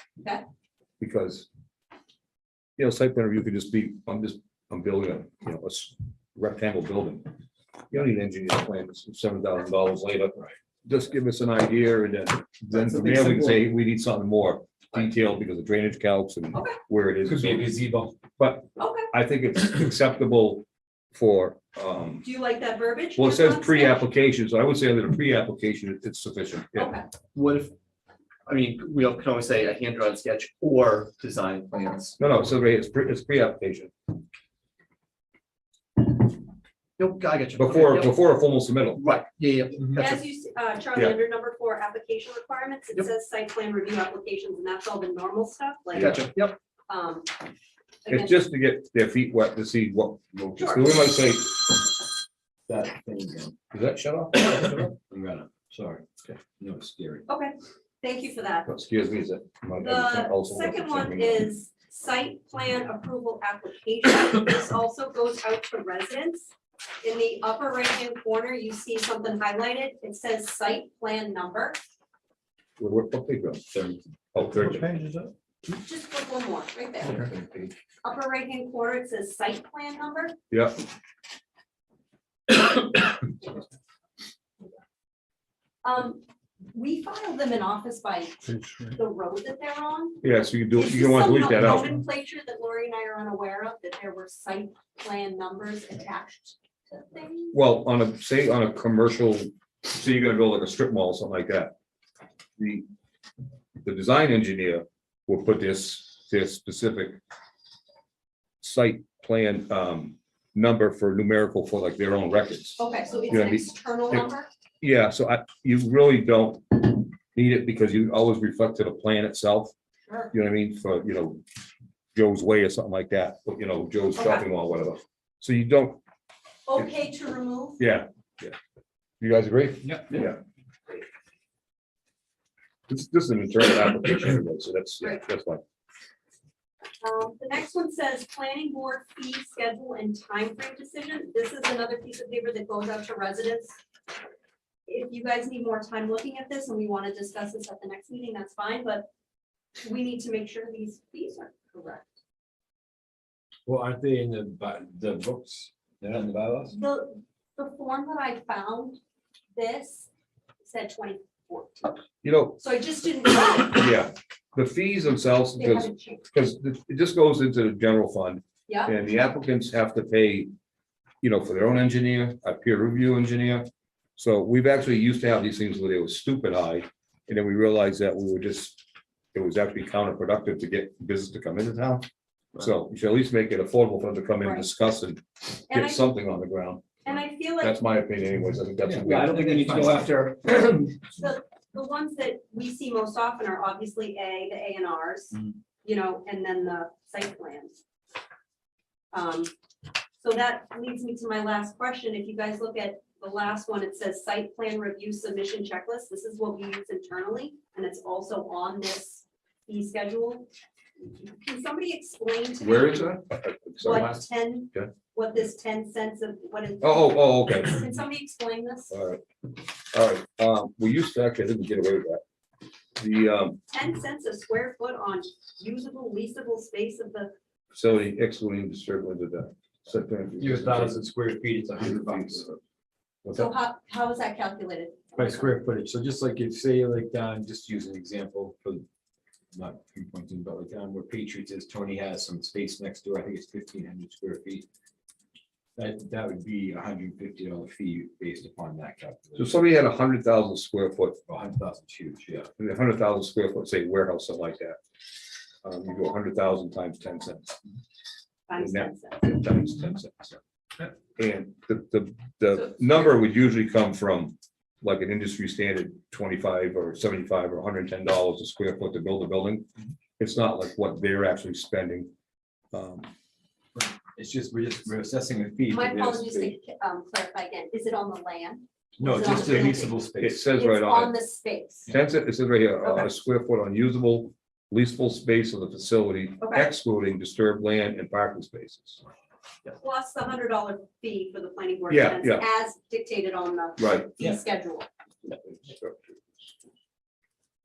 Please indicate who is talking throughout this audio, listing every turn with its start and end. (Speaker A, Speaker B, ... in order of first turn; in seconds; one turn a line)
Speaker A: 1.0-1.5
Speaker A: 2.8-7.3
Speaker A: 7.9-17.7
Speaker B: 12.9-13.4
Speaker C: 16.5-16.8
Speaker D: 17.2-18.1
Speaker A: 18.4-22.3
Speaker C: 18.8-19.1
Speaker C: 22.2-24.0
Speaker A: 23.2-27.0
Speaker C: 26.8-27.1
Speaker B: 27.3-27.7
Speaker B: 28.4-32.2
Speaker A: 32.2-33.9
Speaker B: 37.0-38.2
Speaker A: 37.6-39.0
Speaker B: 39.0-40.2
Speaker C: 40.0-46.2
Speaker A: 45.9-46.2
Speaker B: 46.0-46.5
Speaker C: 46.9-47.3
Speaker C: 48.0-48.4
Speaker A: 48.1-51.9
Speaker D: 50.3-51.1
Speaker C: 50.6-51.0
Speaker D: 52.6-53.6
Speaker A: 53.7-54.9
Speaker D: 54.9-57.3
Speaker C: 57.3-58.7
Speaker A: 58.6-61.5
Speaker C: 59.8-66.5
Speaker C: 67.0-71.8
Speaker A: 72.8-73.6
Speaker D: 73.7-74.0
Speaker A: 74.3-75.0
Speaker C: 75.7-77.3
Speaker A: 77.1-77.7
Speaker C: 78.0-80.3
Speaker A: 80.5-80.8
Speaker C: 85.8-90.2
Speaker A: 90.2-92.0
Speaker C: 90.7-97.6
Speaker A: 97.5-101.7
Speaker A: 102.6-102.9
Speaker A: 103.8-107.2
Speaker A: 108.6-114.2
Speaker C: 112.8-114.5
Speaker A: 114.8-119.7
Speaker C: 120.0-120.3
Speaker A: 120.3-121.4
Speaker A: 122.1-126.0
Speaker C: 124.2-124.5
Speaker C: 126.7-127.8
Speaker A: 127.8-128.5
Speaker A: 129.2-130.4
Speaker D: 129.8-130.2
Speaker A: 132.9-135.6
Speaker C: 137.0-143.8
Speaker C: 144.9-149.1
Speaker C: 149.8-152.1
Speaker D: 153.7-156.8
Speaker C: 156.7-159.0
Speaker C: 159.5-160.1
Speaker C: 160.6-162.0
Speaker A: 162.2-162.6
Speaker C: 162.6-163.9
Speaker A: 163.6-170.5
Speaker C: 165.6-166.2
Speaker C: 168.7-168.9
Speaker A: 171.2-182.0
Speaker A: 182.6-189.3
Speaker C: 184.4-184.7
Speaker C: 185.7-186.0
Speaker C: 187.0-187.8
Speaker D: 188.8-190.1
Speaker B: 189.0-191.0
Speaker C: 191.2-197.7
Speaker C: 199.1-199.5
Speaker C: 200.2-210.5
Speaker C: 211.0-213.1
Speaker A: 212.6-214.9
Speaker C: 213.8-218.9
Speaker A: 216.8-217.8
Speaker A: 218.9-219.2
Speaker A: 219.9-222.2
Speaker A: 223.0-223.6
Speaker C: 223.7-227.3
Speaker A: 227.7-231.0
Speaker D: 230.4-232.4
Speaker A: 231.8-232.6
Speaker A: 233.2-233.5
Speaker C: 233.3-235.5
Speaker D: 235.2-238.8
Speaker D: 239.5-244.7
Speaker D: 245.8-249.7
Speaker A: 249.3-251.2
Speaker D: 251.3-252.5
Speaker A: 252.6-254.8
Speaker A: 255.6-257.6
Speaker C: 258.5-259.3
Speaker A: 258.6-260.4
Speaker A: 261.1-269.7
Speaker A: 270.2-272.1
Speaker A: 272.7-273.1
Speaker D: 273.8-276.5
Speaker C: 275.7-279.9
Speaker D: 279.0-280.5
Speaker A: 280.2-281.2
Speaker C: 280.6-281.9
Speaker A: 281.9-289.0
Speaker C: 286.4-286.7
Speaker C: 289.8-294.9
Speaker A: 291.9-292.4
Speaker A: 293.8-294.1
Speaker A: 295.2-296.2